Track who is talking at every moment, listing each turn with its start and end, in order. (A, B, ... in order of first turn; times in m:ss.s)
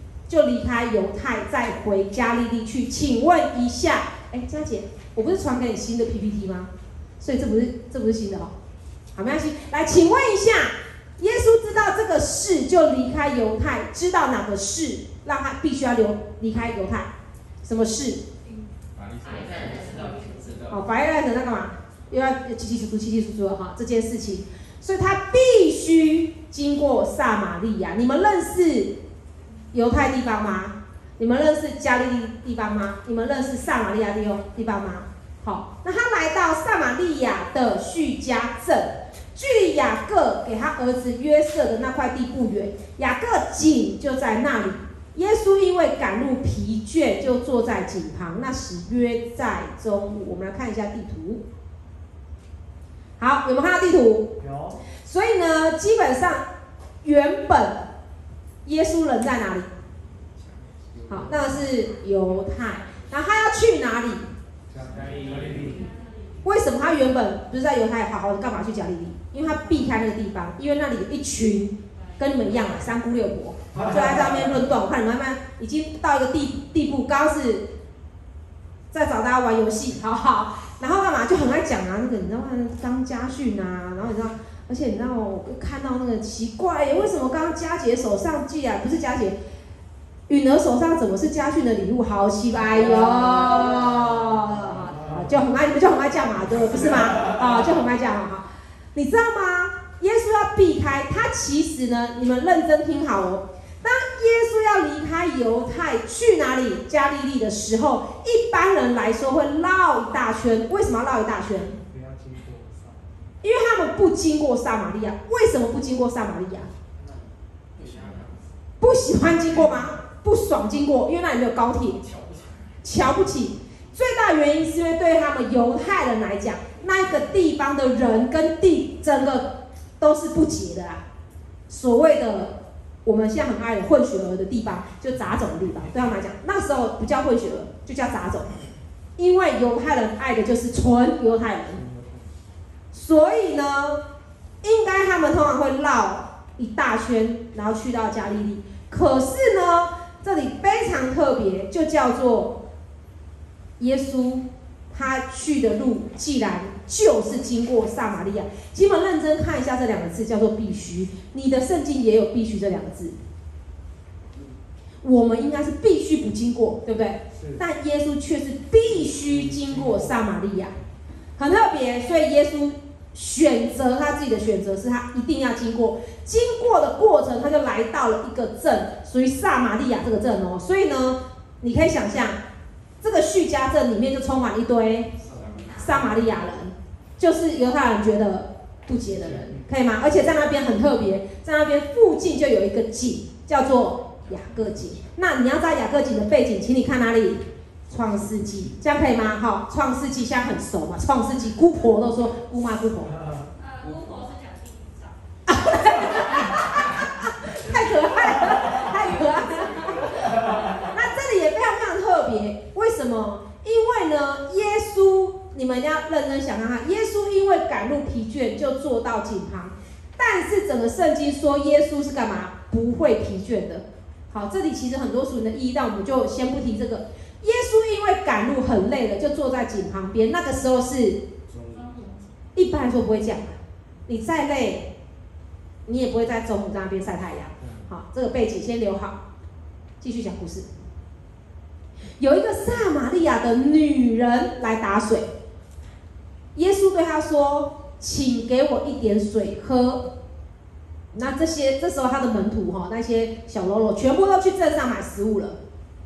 0:00.3-0:08.5 A
0:09.1-0:17.1 A
0:17.6-0:18.2 A
0:19.2-0:20.8 B
0:19.3-0:20.3 C
0:20.7-0:29.0 A
0:29.7-0:51.4 A
0:53.2-0:54.3 A
0:54.4-0:54.8 D
0:55.0-0:56.4 A
0:57.0-0:57.9 A
0:58.6-0:59.7 A
1:00.2-1:01.8 D
1:01.1-1:04.3 A
1:04.7-1:05.9 D
1:04.9-1:05.8 B
1:05.7-1:06.2 C
1:06.4-1:17.7 A
1:13.7-1:14.5 D
1:18.9-1:29.4 A
1:30.3-1:51.8 A
1:33.0-1:33.5 D
1:51.9-1:53.3 D
1:53.4-1:56.7 A
1:57.8-1:58.4 D
1:57.8-1:58.4 B
1:58.8-2:02.0 A
2:02.8-2:11.0 A
2:11.7-2:18.5 A
2:19.2-2:21.8 A
2:21.7-2:22.4 D
2:22.9-2:24.0 A
2:24.6-2:32.6 A
2:33.8-2:43.2 A
2:45.0-2:50.8 A
2:47.4-2:47.6 D
2:49.2-2:50.2 D
2:51.4-3:02.4 A
3:03.0-3:05.2 A
3:05.2-3:06.2 D
3:05.7-3:23.2 A
3:09.2-3:09.6 D
3:23.6-3:25.2 C
3:25.5-3:51.2 A
3:51.5-3:51.9 D
3:51.7-3:52.2 C
3:52.6-3:54.9 A
3:55.9-3:59.2 A
3:57.6-3:57.9 D
4:00.0-4:00.7 A
4:02.2-4:05.3 A
4:06.6-4:10.1 A
4:11.1-4:15.6 A